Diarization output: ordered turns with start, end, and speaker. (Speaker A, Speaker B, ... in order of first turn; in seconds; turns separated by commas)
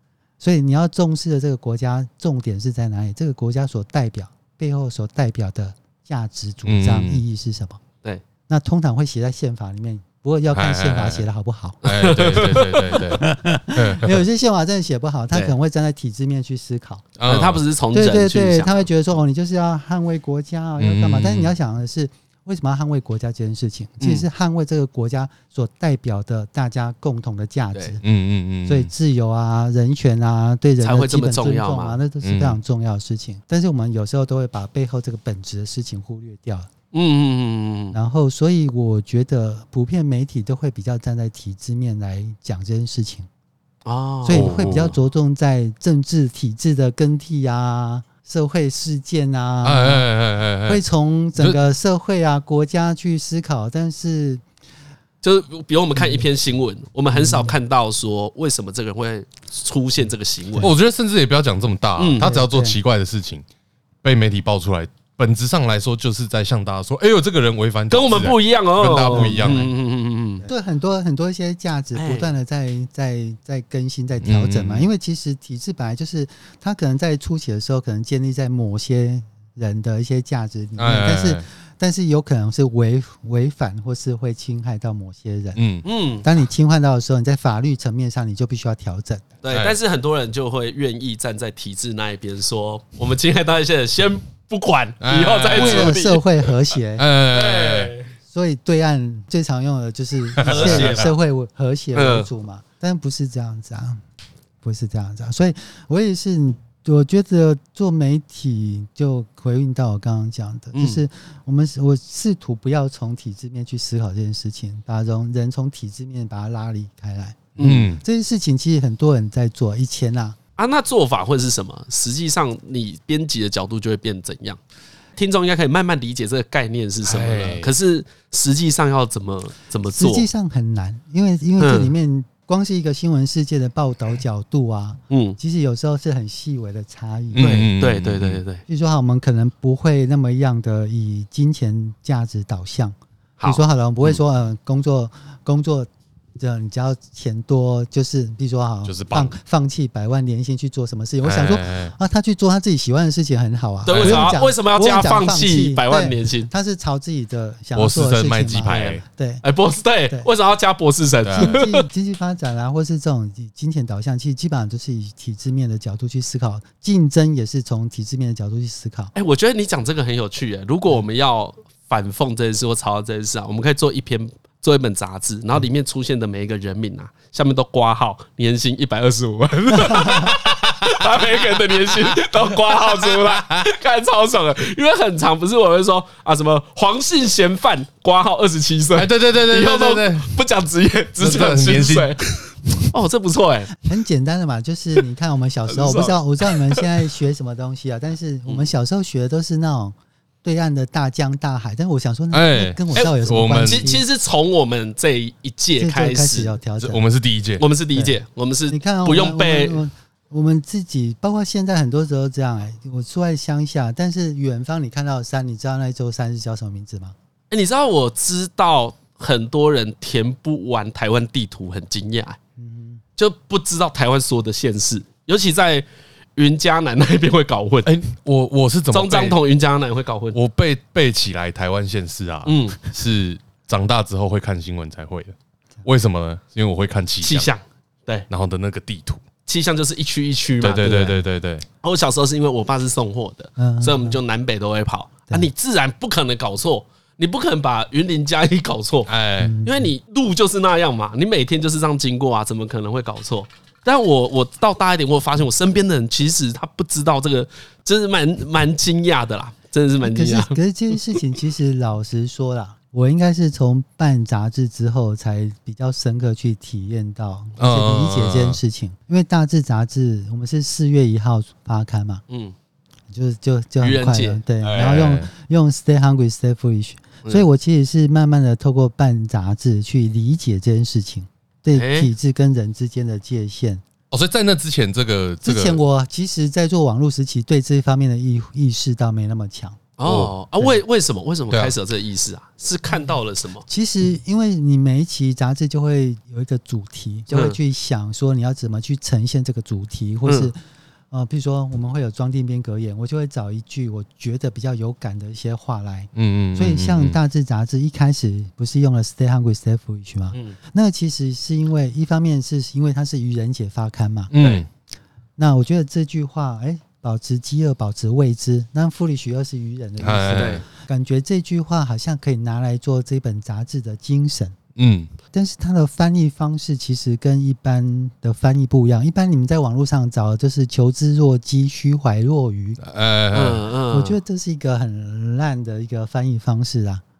Speaker A: 0.4-7.8, Speaker B: 6.6-7.2, Speaker A: 8.5-11.8, Speaker B: 10.5-11.3, Speaker C: 11.8-12.9, Speaker B: 11.8-14.2, Speaker A: 12.4-17.1, Speaker B: 17.2-17.6, Speaker C: 17.3-18.9, Speaker A: 17.9-28.0, Speaker B: 20.8-21.5, Speaker C: 24.0-24.2, Speaker B: 28.0-28.9, Speaker A: 28.7-36.7, Speaker C: 30.8-32.0, Speaker B: 32.2-32.6, Speaker C: 36.9-38.0, Speaker A: 37.9-43.3, Speaker C: 43.8-44.9, Speaker A: 44.2-50.1, Speaker B: 44.3-44.9, Speaker B: 49.6-50.8, Speaker A: 50.6-54.4, Speaker C: 55.2-60.7, Speaker A: 56.0-56.2, Speaker A: 57.1-57.5, Speaker B: 60.6-63.4, Speaker C: 62.0-62.2, Speaker A: 62.2-62.8, Speaker B: 64.0-69.7, Speaker C: 67.9-70.5, Speaker A: 69.1-69.7, Speaker A: 70.4-85.6, Speaker C: 71.9-72.3, Speaker B: 74.2-74.9, Speaker B: 80.8-81.4, Speaker B: 85.5-85.8, Speaker C: 85.8-86.3, Speaker A: 86.2-89.2, Speaker C: 89.4-96.2, Speaker B: 89.5-89.7, Speaker B: 95.0-96.0, Speaker A: 95.5-97.0, Speaker B: 97.0-97.9, Speaker C: 97.3-98.1, Speaker A: 98.3-104.0, Speaker B: 100.4-101.1, Speaker C: 100.4-101.2, Speaker C: 101.9-102.3, Speaker A: 104.6-120.4, Speaker C: 110.7-111.0, Speaker C: 117.6-117.9, Speaker B: 117.6-118.0, Speaker C: 120.6-124.6, Speaker C: 125.2-130.3, Speaker B: 127.0-127.7, Speaker A: 129.9-137.5, Speaker C: 131.6-131.9, Speaker C: 135.1-135.4, Speaker B: 137.3-138.4, Speaker C: 137.4-138.6, Speaker A: 138.7-159.4, Speaker C: 143.4-144.1, Speaker B: 148.8-149.3, Speaker B: 151.2-151.9, Speaker C: 153.8-156.5, Speaker B: 153.9-154.4, Speaker B: 157.7-159.0, Speaker C: 158.7-161.8, Speaker B: 161.2-161.6, Speaker A: 161.4-169.1, Speaker C: 169.1-192.2, Speaker B: 183.2-183.6, Speaker B: 188.9-190.3, Speaker B: 191.2-192.8, Speaker C: 192.9-193.8, Speaker A: 193.8-204.0, Speaker C: 195.7-196.8, Speaker B: 202.3-203.9, Speaker C: 202.9-206.6, Speaker A: 205.8-207.0, Speaker B: 206.8-207.6, Speaker C: 207.6-209.8, Speaker A: 208.7-217.1, Speaker C: 217.5-222.4, Speaker A: 222.6-223.0, Speaker C: 223.2-227.9, Speaker B: 227.8-229.4, Speaker C: 228.9-230.4, Speaker B: 230.3-237.5, Speaker C: 232.4-232.8, Speaker C: 237.2-238.3, Speaker B: 238.3-239.2, Speaker C: 239.4-241.2, Speaker B: 240.6-241.7, Speaker C: 241.8-249.1, Speaker A: 243.6-244.2, Speaker B: 249.1-249.5, Speaker A: 249.4-249.9, Speaker C: 249.6-260.6, Speaker A: 260.0-272.2, Speaker B: 267.6-268.6, Speaker C: 272.3-272.5, Speaker A: 273.1-283.8, Speaker C: 273.8-274.4, Speaker B: 274.6-275.3, Speaker C: 281.7-282.1, Speaker B: 284.1-285.8, Speaker A: 285.4-289.8, Speaker C: 290.0-293.6, Speaker B: 290.0-290.3, Speaker B: 291.5-291.7, Speaker A: 293.7-300.6, Speaker C: 297.3-297.6, Speaker C: 300.2-300.5, Speaker A: 301.1-314.3, Speaker B: 306.1-307.2, Speaker B: 314.3-314.7, Speaker C: 314.4-314.6, Speaker A: 315.4-324.5, Speaker B: 320.0-320.6, Speaker C: 320.3-320.6, Speaker B: 324.8-325.1, Speaker A: 325.3-332.8, Speaker B: 332.8-333.6, Speaker C: 333.3-334.2, Speaker A: 333.9-337.0